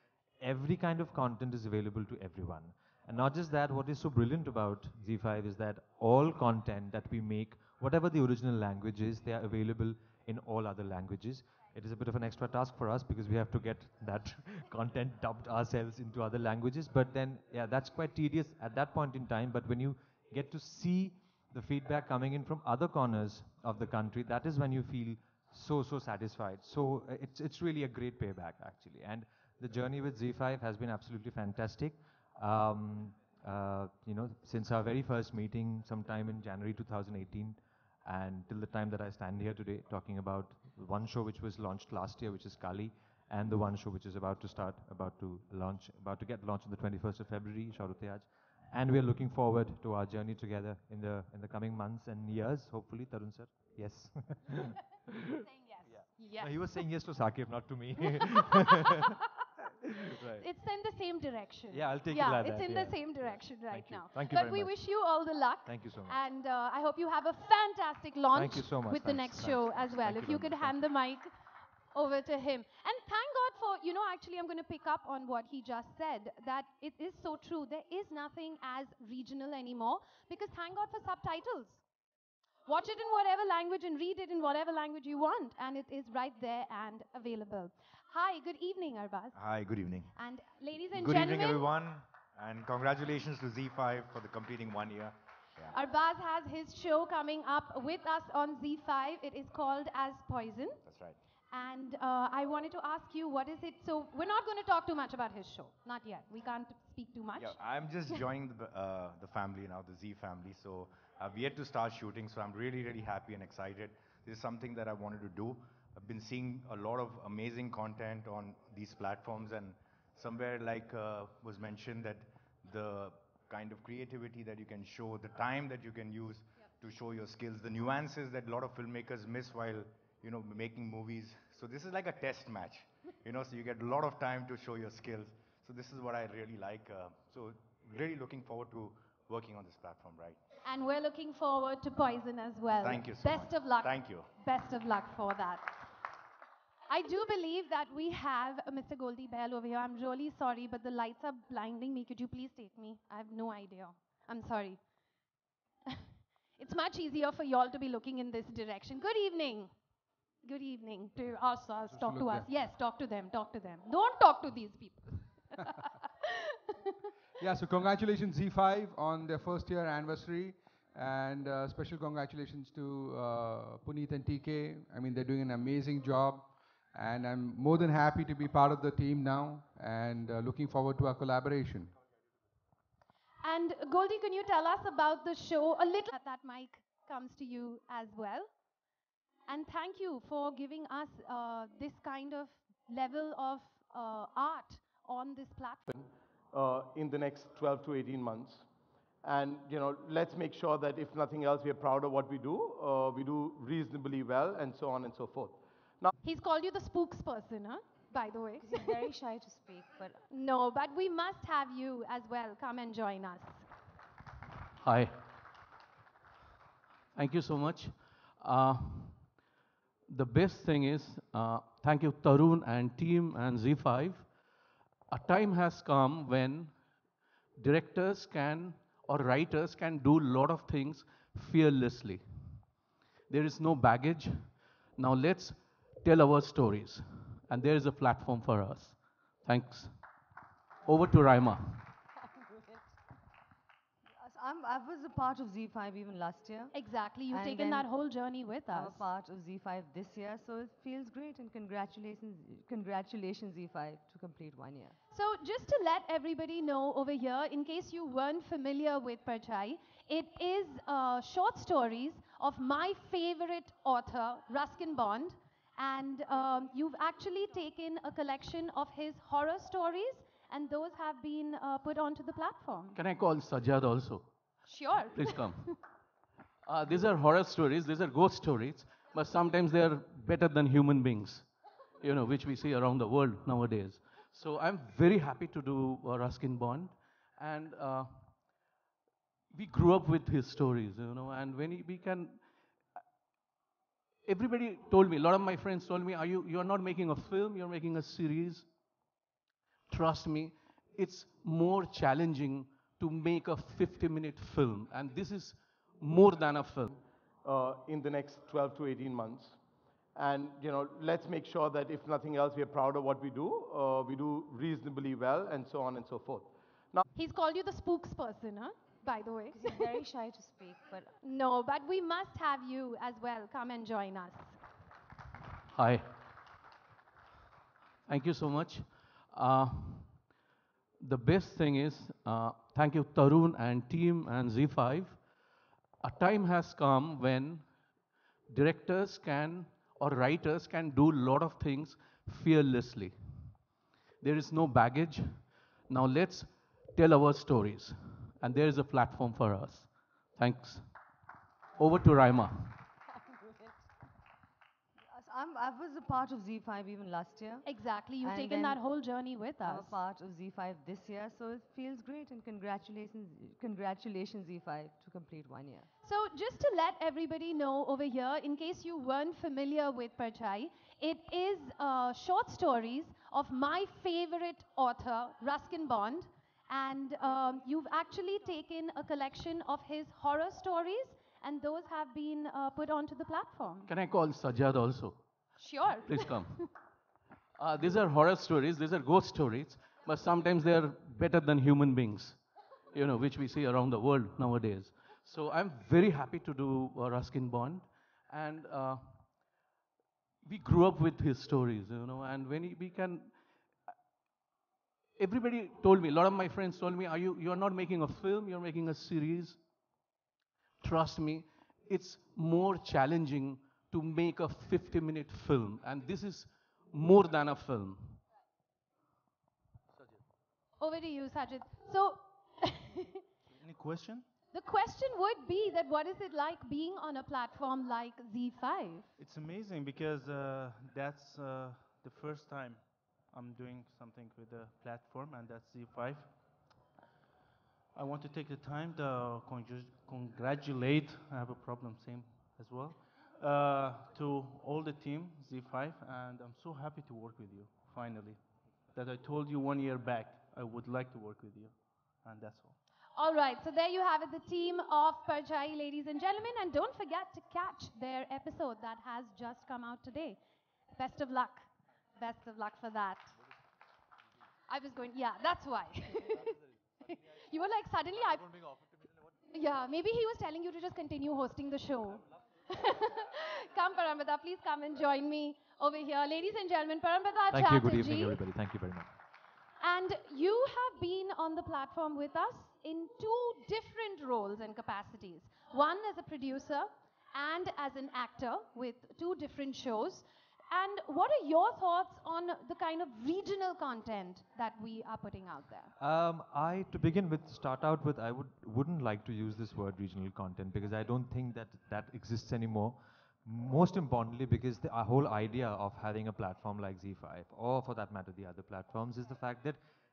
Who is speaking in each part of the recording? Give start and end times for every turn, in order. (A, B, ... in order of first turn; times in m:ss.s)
0:00.4-0:55.5 A
0:56.2-0:56.8 B
0:56.4-0:58.9 A
1:00.0-1:00.5 A
1:00.4-1:11.3 B
1:01.7-1:05.1 A
1:05.6-1:06.2 A
1:08.3-1:10.8 A
1:11.9-1:21.8 B
1:22.7-1:29.4 B
1:29.3-1:30.1 C
1:30.1-1:31.6 B
1:30.9-1:35.8 C
1:35.7-1:40.8 B
1:40.8-1:41.2 C
1:41.5-1:47.6 B
1:47.4-2:20.4 C
2:20.6-2:25.8 B
2:22.8-2:24.3 C
2:26.9-2:34.8 B
2:36.6-2:39.7 B
2:40.4-2:45.8 B
2:41.9-2:42.5 D
2:47.4-3:01.9 D
3:03.4-3:08.5 B
3:09.5-3:15.9 B
3:15.9-3:18.6 E
3:19.2-3:26.1 E
3:26.2-3:29.0 B
3:28.6-3:30.2 F
3:30.3-3:33.6 B
3:34.8-3:35.2 G
3:37.1-3:39.4 G
3:40.1-3:44.3 G
3:45.1-3:46.8 G
3:47.6-3:52.7 G
3:53.3-3:59.9 G
4:00.9-4:01.9 G
4:04.2-4:06.8 F
4:06.7-4:09.1 B
4:07.3-4:07.9 F
4:08.7-4:15.0 F
4:15.1-4:33.0 B
4:32.9-4:34.3 G
4:34.7-4:35.7 B
4:35.1-4:35.8 G
4:36.6-4:41.5 G
4:42.0-4:48.4 G
4:49.5-4:52.4 G
4:54.3-4:58.7 G
4:59.9-5:06.9 G
5:06.9-5:09.6 E
5:10.2-5:17.0 E
5:17.1-5:20.0 B
5:19.5-5:21.1 F
5:21.2-5:24.6 B
5:25.7-5:26.1 G
5:28.1-5:30.3 G
5:31.0-5:35.2 G
5:36.0-5:37.8 G
5:38.5-5:43.6 G
5:44.2-5:50.8 G
5:51.8-5:52.8 G
5:55.1-5:57.6 F
5:57.6-6:00.0 B
5:58.2-5:58.9 F
5:59.6-6:05.9 F
6:06.0-6:23.9 B
6:23.9-6:25.2 G
6:25.6-6:26.7 B
6:26.0-6:26.8 G
6:27.6-6:32.4 G
6:32.9-6:39.3 G
6:40.4-6:43.4 G
6:45.2-6:49.6 G
6:50.8-6:58.2 G
7:00.8-7:03.2 B
7:03.5-7:04.3 H
7:04.5-7:09.1 B
7:09.2-7:16.3 H
7:17.9-7:28.4 H
7:28.9-7:32.8 H
7:33.2-7:40.4 B
7:40.9-7:41.7 B
7:42.2-7:43.3 B
7:44.7-7:46.6 B
7:47.4-7:48.6 B
7:49.5-7:58.4 B
7:57.5-7:59.1 A
7:59.8-8:15.9 B
8:16.0-8:29.8 A